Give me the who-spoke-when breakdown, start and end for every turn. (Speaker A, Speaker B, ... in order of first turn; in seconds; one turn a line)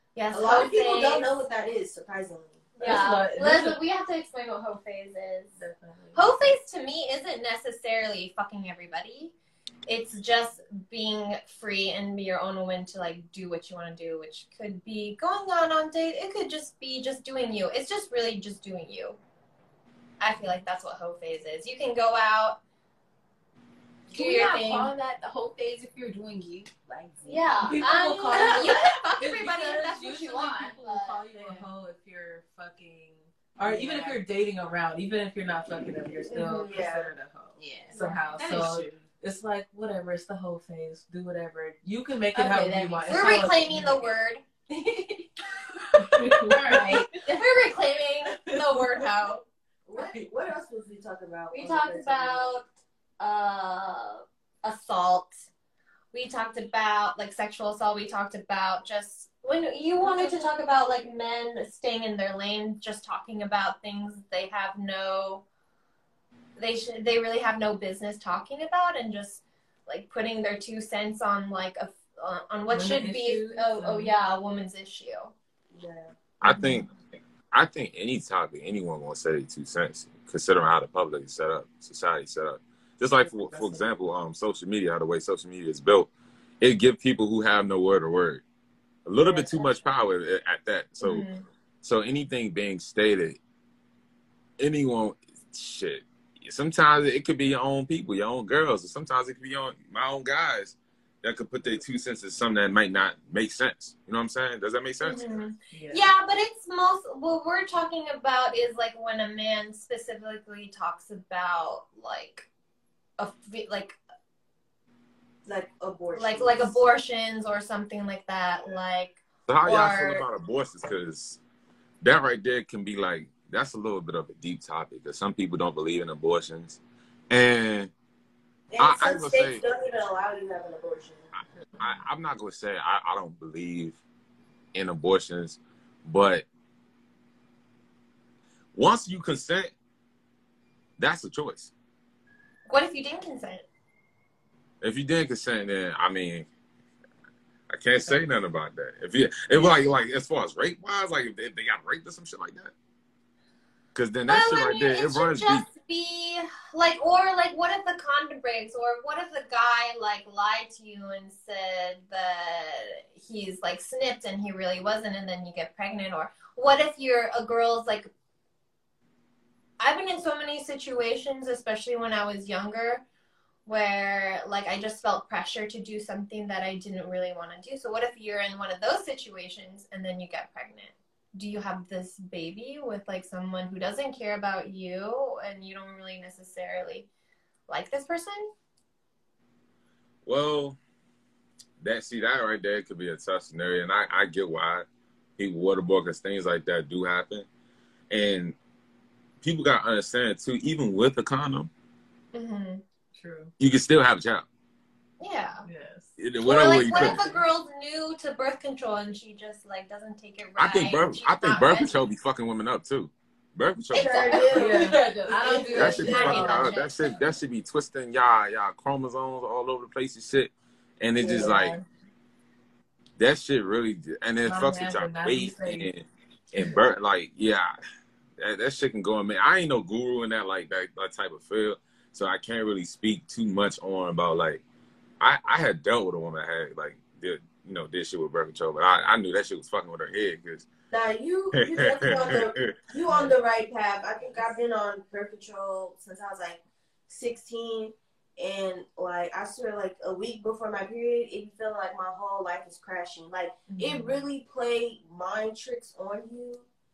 Speaker A: 0.1-1.3
Speaker B: 0.3-2.8
Speaker C: 0.5-1.1
Speaker A: 2.8-5.6
Speaker D: 2.8-3.8
Speaker D: 5.6-6.5
Speaker A: 6.1-9.3
Speaker A: 9.9-19.2
Speaker A: 20.2-22.6
Speaker C: 24.1-31.7
Speaker A: 24.1-24.9
Speaker A: 27.2-31.2
Speaker D: 30.6-44.0
Speaker C: 33.6-34.2
Speaker A: 36.3-36.8
Speaker B: 36.6-37.1
Speaker C: 37.6-39.1
Speaker C: 42.3-43.5
Speaker A: 43.1-44.4
Speaker C: 44.7-45.3
Speaker D: 46.0-47.1
Speaker C: 46.0-47.1
Speaker A: 47.2-49.5
Speaker B: 49.9-52.5
Speaker A: 51.5-52.7
Speaker A: 53.2-55.5
Speaker A: 56.1-65.5
Speaker B: 60.0-60.5
Speaker A: 66.6-75.3
Speaker D: 72.7-74.1
Speaker B: 75.7-76.1
Speaker E: 76.4-76.9
Speaker E: 77.5-86.1
Speaker E: 86.6-88.4
Speaker E: 89.1-91.2
Speaker B: 89.2-89.5
Speaker A: 91.0-91.5
Speaker E: 91.8-93.4
Speaker E: 94.6-105.4
Speaker A: 105.0-112.5
Speaker D: 105.7-106.1
Speaker A: 113.2-114.0
Speaker B: 115.5-116.8
Speaker A: 116.1-120.2
Speaker E: 119.5-121.4
Speaker E: 122.0-126.8
Speaker E: 127.3-127.9
Speaker B: 128.7-131.3
Speaker E: 128.8-129.6
Speaker E: 131.8-134.0
Speaker E: 134.7-136.5
Speaker E: 138.8-139.7
Speaker E: 141.0-141.7
Speaker A: 142.7-143.7
Speaker E: 144.8-146.5
Speaker E: 147.7-152.7
Speaker E: 153.9-155.7
Speaker A: 154.3-168.1
Speaker A: 169.8-173.0
Speaker A: 173.7-187.1
Speaker A: 187.7-188.5
Speaker E: 190.2-190.8
Speaker E: 191.8-194.9
Speaker E: 195.4-197.5
Speaker E: 198.1-198.6
Speaker E: 199.4-201.7
Speaker A: 202.3-202.8
Speaker D: 203.2-203.5
Speaker E: 203.6-204.5
Speaker A: 205.2-205.7
Speaker D: 205.7-206.1
Speaker E: 206.2-207.3
Speaker A: 206.4-212.0
Speaker D: 206.9-207.4
Speaker E: 210.6-214.6
Speaker B: 213.9-216.3
Speaker A: 214.0-214.6
Speaker D: 214.5-216.8
Speaker A: 215.3-217.2
Speaker E: 215.8-221.8
Speaker D: 221.3-221.8
Speaker E: 223.2-227.7
Speaker D: 224.4-225.9
Speaker E: 228.4-234.6
Speaker E: 235.2-240.7
Speaker B: 240.9-256.7
Speaker E: 241.5-242.8
Speaker D: 253.7-254.2